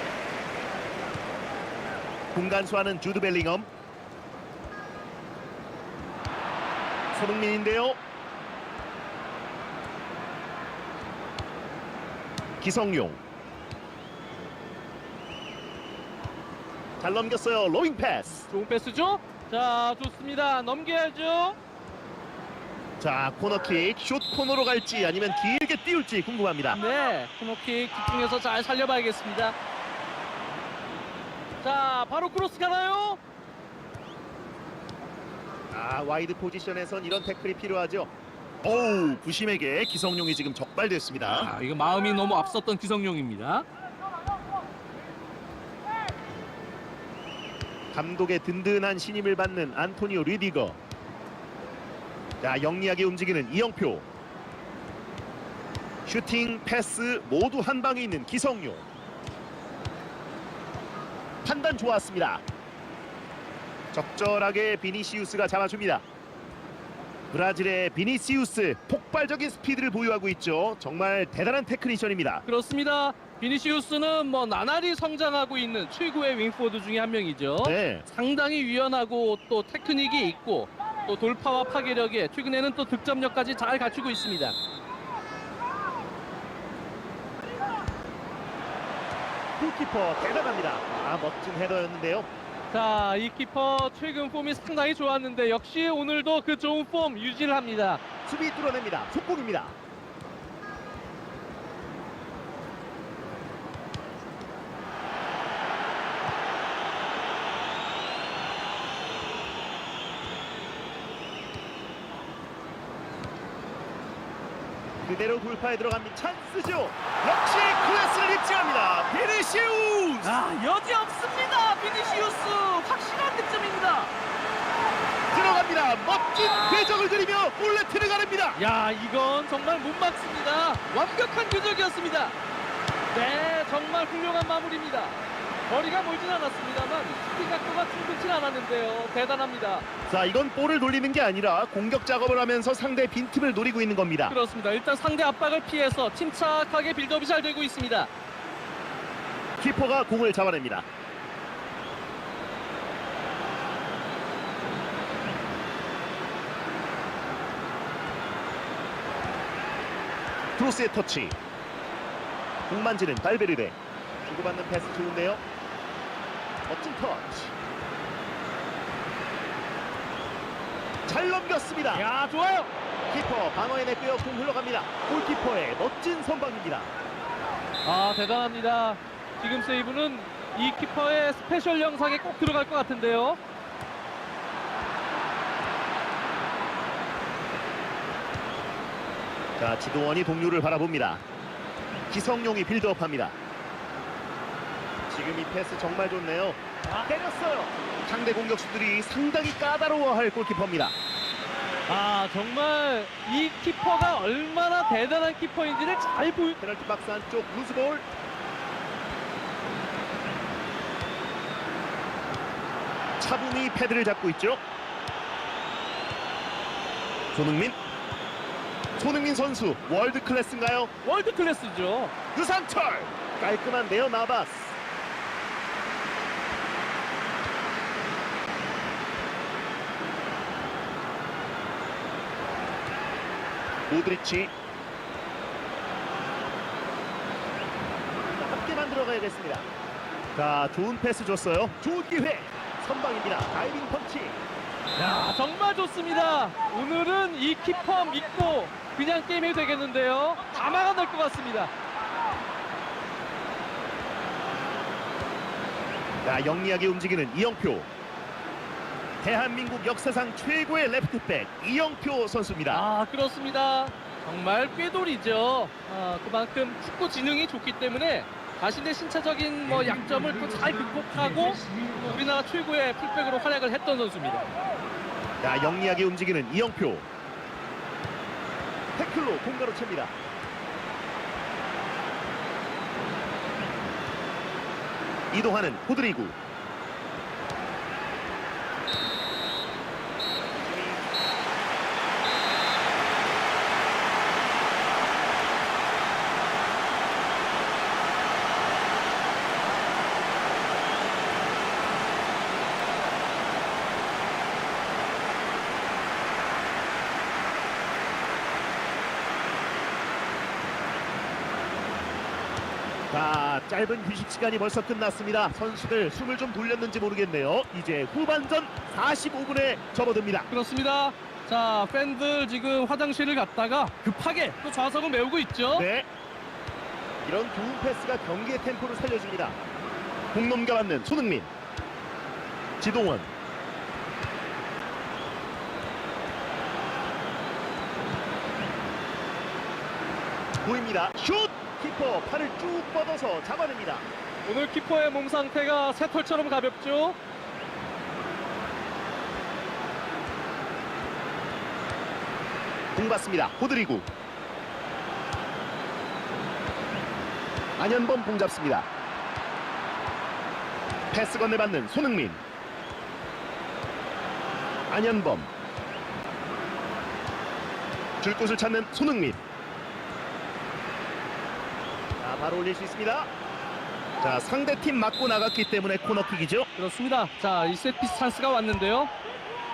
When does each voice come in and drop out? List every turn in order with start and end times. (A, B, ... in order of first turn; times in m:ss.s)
0:02.3-0:03.7 A
0:07.1-0:08.0 A
0:12.6-0:13.2 A
0:17.0-0:18.4 A
0:18.3-0:21.6 B
0:23.0-0:26.8 A
0:26.7-0:29.6 B
0:31.6-0:33.2 B
0:35.7-0:38.1 A
0:38.6-0:41.5 A
0:41.2-0:43.6 B
0:47.9-0:50.8 A
0:52.4-0:54.0 A
0:56.0-0:58.8 A
1:01.4-1:02.4 A
1:03.9-1:06.0 A
1:07.3-1:12.4 A
1:12.4-1:24.6 B
1:17.6-1:18.0 A
1:29.6-1:32.3 A
1:32.7-1:38.0 B
1:38.2-1:39.8 A
1:55.0-2:00.4 A
2:00.2-2:04.1 B
2:05.3-2:08.6 A
2:08.6-2:12.4 B
2:13.1-2:19.8 B
2:20.1-2:24.4 A
2:24.3-2:28.1 B
2:29.6-2:30.8 A
2:40.6-2:41.4 A
2:42.7-2:45.4 A
2:46.7-2:47.5 A
2:51.0-2:52.1 A
2:51.9-2:52.7 B
2:53.1-2:56.9 A
2:57.8-3:03.4 B
3:09.6-3:11.2 A
3:12.1-3:13.4 A
3:15.1-3:20.9 A
3:21.9-3:26.6 B
3:26.6-3:28.0 A
3:33.2-3:34.6 A
3:37.3-3:37.8 A
3:39.0-3:40.9 A
3:41.0-3:42.1 B
3:42.3-3:44.8 A
3:53.9-3:54.5 A
3:58.3-3:59.7 A
4:00.3-4:04.4 A
4:05.0-4:11.7 B
4:16.2-4:17.9 A
4:19.2-4:22.8 A
4:22.7-4:34.4 B
4:35.4-4:37.0 A
4:39.0-4:40.1 A
4:45.3-4:46.3 A
4:50.5-4:51.0 A
5:13.1-5:20.5 A
5:20.5-5:25.8 B
5:25.7-5:26.1 A
5:27.2-5:29.6 A
5:30.3-5:31.5 A
5:32.8-5:33.3 A
5:40.6-5:44.0 A
5:44.4-5:47.2 B
5:52.9-5:54.1 A
5:57.8-5:58.9 A
6:01.1-6:02.4 A
6:04.9-6:05.5 A
6:08.2-6:09.4 A
6:12.2-6:13.3 A
6:14.2-6:16.7 A
6:16.8-6:19.1 B